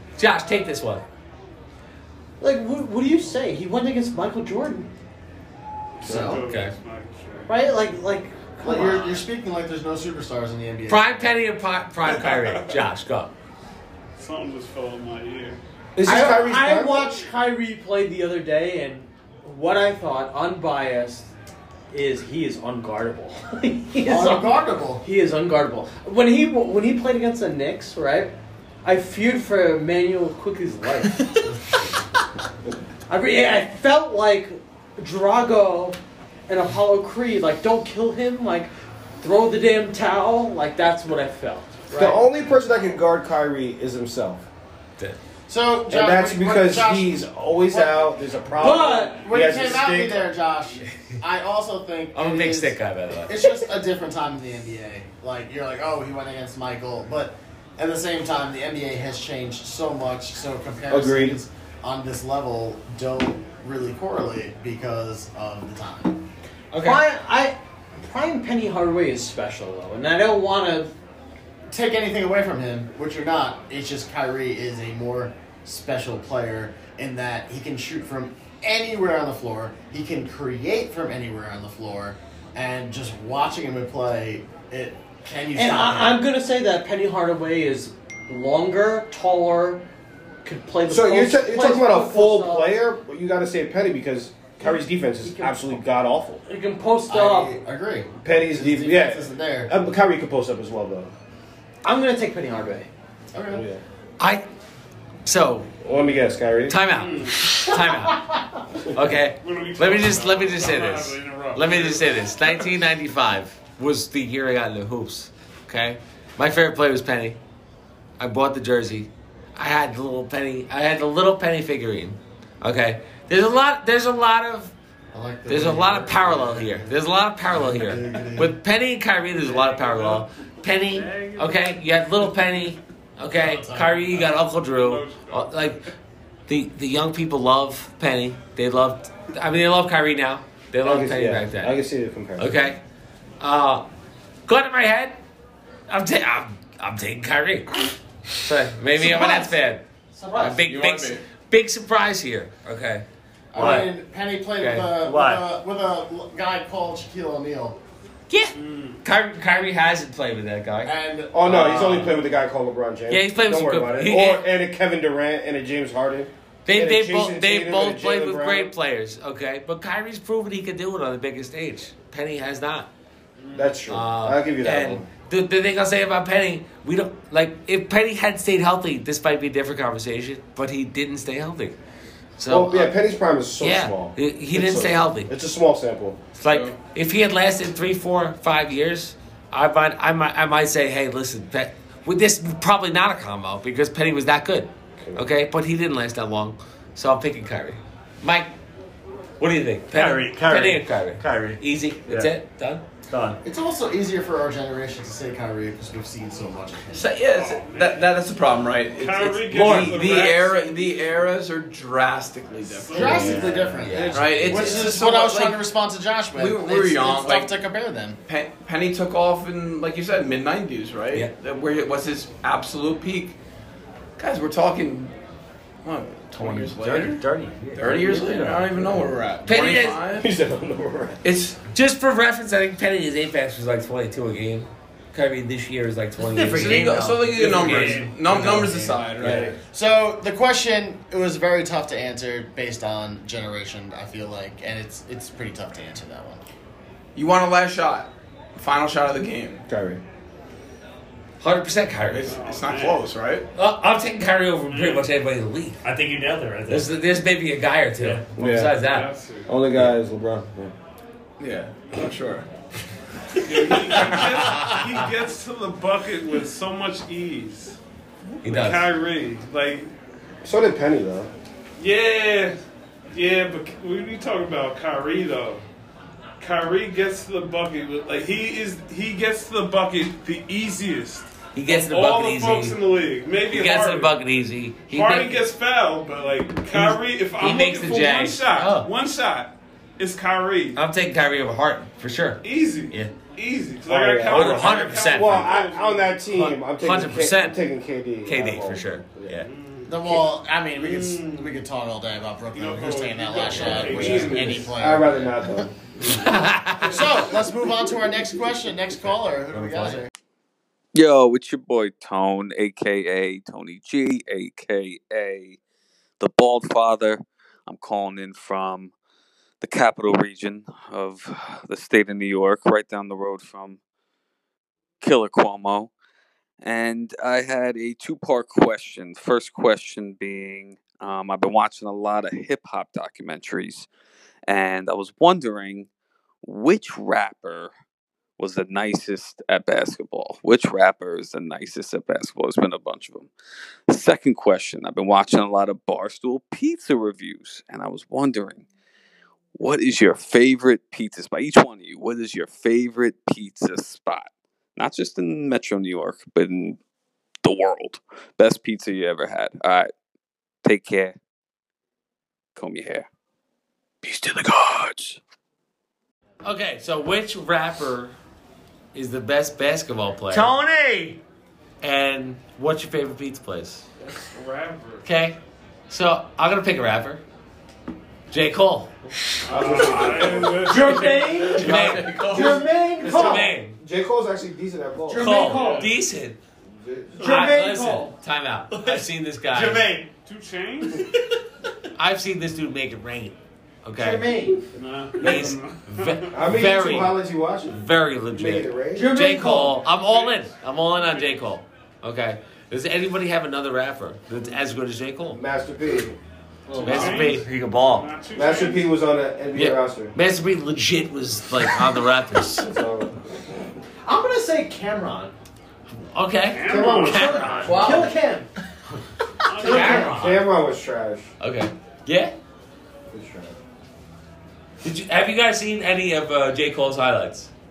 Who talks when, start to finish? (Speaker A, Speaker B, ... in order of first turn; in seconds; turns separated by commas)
Speaker A: 0.2-1.0, Speaker B: 2.4-4.9, Speaker C: 6.0-7.7, Speaker D: 6.0-6.4, Speaker A: 6.2-6.7, Speaker B: 7.5-9.2, Speaker D: 8.6-11.1, Speaker A: 10.9-13.3, Speaker C: 12.0-12.8, Speaker C: 14.2-15.6, Speaker E: 15.9-17.1, Speaker B: 16.0-21.3, Speaker B: 21.9-31.5, Speaker D: 24.0-25.0, Speaker B: 33.1-42.2, Speaker E: 42.0-44.5, Speaker D: 45.5-66.2, Speaker E: 45.9-50.3, Speaker B: 48.6-49.2, Speaker A: 52.1-53.4, Speaker E: 60.9-61.4, Speaker A: 66.7-67.0, Speaker B: 66.8-70.9, Speaker D: 71.7-86.2, Speaker B: 85.5-89.8, Speaker B: 90.4-92.8, Speaker E: 90.9-96.4, Speaker B: 94.6-95.8, Speaker B: 96.5-97.6, Speaker D: 97.1-99.7, Speaker E: 98.2-101.1, Speaker B: 101.8-102.9, Speaker D: 103.3-103.6, Speaker E: 103.5-103.8, Speaker A: 104.2-104.5, Speaker A: 105.2-105.7, Speaker E: 105.8-106.7, Speaker A: 106.7-108.2, Speaker C: 106.9-107.5, Speaker A: 108.9-117.4, Speaker C: 109.4-112.7, Speaker A: 118.2-124.7, Speaker D: 125.1-128.6, Speaker A: 125.5-135.8, Speaker C: 129.8-130.2, Speaker D: 133.3-134.3, Speaker C: 134.7-135.7, Speaker A: 136.5-141.8, Speaker E: 140.8-142.5, Speaker A: 142.4-142.8, Speaker A: 143.4-143.9, Speaker A: 144.5-145.2, Speaker A: 145.9-147.7, Speaker A: 148.4-149.8, Speaker B: 149.0-149.5, Speaker B: 150.1-150.6, Speaker A: 150.3-153.9, Speaker F: 150.4-151.2, Speaker D: 153.5-157.8, Speaker G: 153.6-153.9, Speaker A: 154.6-154.9, Speaker G: 155.0-155.5, Speaker A: 158.3-160.9, Speaker C: 158.5-159.0, Speaker D: 160.8-162.1, Speaker E: 161.3-168.7, Speaker A: 161.5-162.1, Speaker A: 163.1-164.4, Speaker A: 166.6-172.9, Speaker E: 173.5-175.1, Speaker A: 173.9-181.8, Speaker A: 182.4-182.9, Speaker E: 182.5-186.2, Speaker A: 183.6-185.3, Speaker A: 186.4-198.5, Speaker F: 186.5-186.7, Speaker A: 199.4-202.8, Speaker G: 199.9-202.3, Speaker G: 203.1-203.4, Speaker D: 203.4-206.9, Speaker F: 206.9-213.5, Speaker C: 207.3-208.1, Speaker C: 208.9-210.8, Speaker A: 209.6-209.9, Speaker G: 209.6-209.9, Speaker C: 212.7-214.1, Speaker D: 212.9-218.2, Speaker A: 213.0-214.9, Speaker F: 214.1-215.6, Speaker F: 216.3-217.5, Speaker F: 218.3-223.3, Speaker F: 224.2-225.1, Speaker F: 225.8-227.2, Speaker G: 226.3-229.1, Speaker F: 227.8-230.3, Speaker A: 229.4-230.0, Speaker E: 230.2-231.2, Speaker F: 231.2-231.6, Speaker A: 231.7-238.7, Speaker B: 236.2-237.3, Speaker G: 236.5-239.5, Speaker F: 236.5-239.5, Speaker E: 239.2-239.5, Speaker D: 239.7-246.4, Speaker F: 247.1-249.6, Speaker E: 249.7-250.0, Speaker A: 251.4-252.3, Speaker F: 252.1-253.4, Speaker C: 252.3-253.0, Speaker A: 253.5-255.8, Speaker C: 254.7-255.0, Speaker G: 255.8-256.9, Speaker A: 256.7-259.1, Speaker G: 258.0-258.2, Speaker E: 258.4-258.7, Speaker C: 258.7-259.5, Speaker E: 259.4-260.7, Speaker F: 261.4-262.4, Speaker C: 263.4-267.8, Speaker A: 268.4-268.9, Speaker C: 268.4-269.9, Speaker E: 270.4-271.3, Speaker C: 271.8-272.6, Speaker C: 273.1-275.6, Speaker C: 276.4-284.1, Speaker A: 281.5-282.8, Speaker A: 283.5-285.4, Speaker C: 284.9-290.8, Speaker A: 286.7-288.9, Speaker A: 290.7-293.1, Speaker C: 292.4-296.2, Speaker E: 293.9-299.4, Speaker A: 294.3-295.5, Speaker A: 296.3-297.6, Speaker A: 298.2-299.5, Speaker C: 299.4-300.2, Speaker D: 299.9-305.2, Speaker C: 300.8-301.6, Speaker C: 302.5-304.8, Speaker A: 303.5-304.2, Speaker E: 303.9-307.4, Speaker A: 306.1-307.0, Speaker D: 306.8-310.1, Speaker H: 310.9-315.6, Speaker H: 316.2-318.9, Speaker H: 319.6-323.8, Speaker H: 325.0-325.9, Speaker H: 326.6-333.9, Speaker H: 334.5-335.9, Speaker H: 336.4-337.7, Speaker H: 338.4-343.3, Speaker H: 343.9-348.6, Speaker H: 349.6-356.8, Speaker H: 357.4-359.9, Speaker H: 360.6-361.1, Speaker H: 362.6-363.1, Speaker H: 364.0-365.2, Speaker A: 366.4-368.1, Speaker A: 368.9-370.5, Speaker G: 370.3-371.2, Speaker A: 371.8-373.9, Speaker C: 374.1-375.1, Speaker A: 375.0-375.4, Speaker A: 375.9-377.2, Speaker A: 378.3-378.9, Speaker C: 379.4-381.5, Speaker E: 379.5-380.8, Speaker B: 380.6-383.5, Speaker F: 381.5-382.7, Speaker A: 381.6-382.2, Speaker A: 383.0-383.8, Speaker E: 383.0-385.3, Speaker B: 385.1-385.9, Speaker A: 385.2-386.4, Speaker C: 385.4-385.9, Speaker E: 386.8-387.3, Speaker B: 387.2-388.1, Speaker A: 387.2-389.9, Speaker G: 389.5-390.0, Speaker C: 390.2-391.1, Speaker A: 391.9-394.3, Speaker B: 393.9-394.6, Speaker C: 394.7-396.5, Speaker A: 395.2-405.4, Speaker E: 396.3-397.8, Speaker E: 398.3-399.1, Speaker B: 398.9-399.8, Speaker C: 399.9-401.3, Speaker E: 405.3-406.2, Speaker B: 406.7-407.3, Speaker C: 406.8-408.9, Speaker A: 406.8-407.4, Speaker G: 407.3-408.1, Speaker E: 408.3-410.1, Speaker A: 409.5-412.6, Speaker E: 412.5-413.5, Speaker B: 414.0-415.3, Speaker A: 416.0-418.1, Speaker C: 416.5-417.8, Speaker E: 416.6-417.9, Speaker B: 417.1-418.5, Speaker C: 419.4-420.3, Speaker B: 419.6-420.4, Speaker A: 419.6-420.4, Speaker E: 419.9-421.3, Speaker A: 421.4-422.3, Speaker E: 423.1-423.6, Speaker A: 424.8-427.5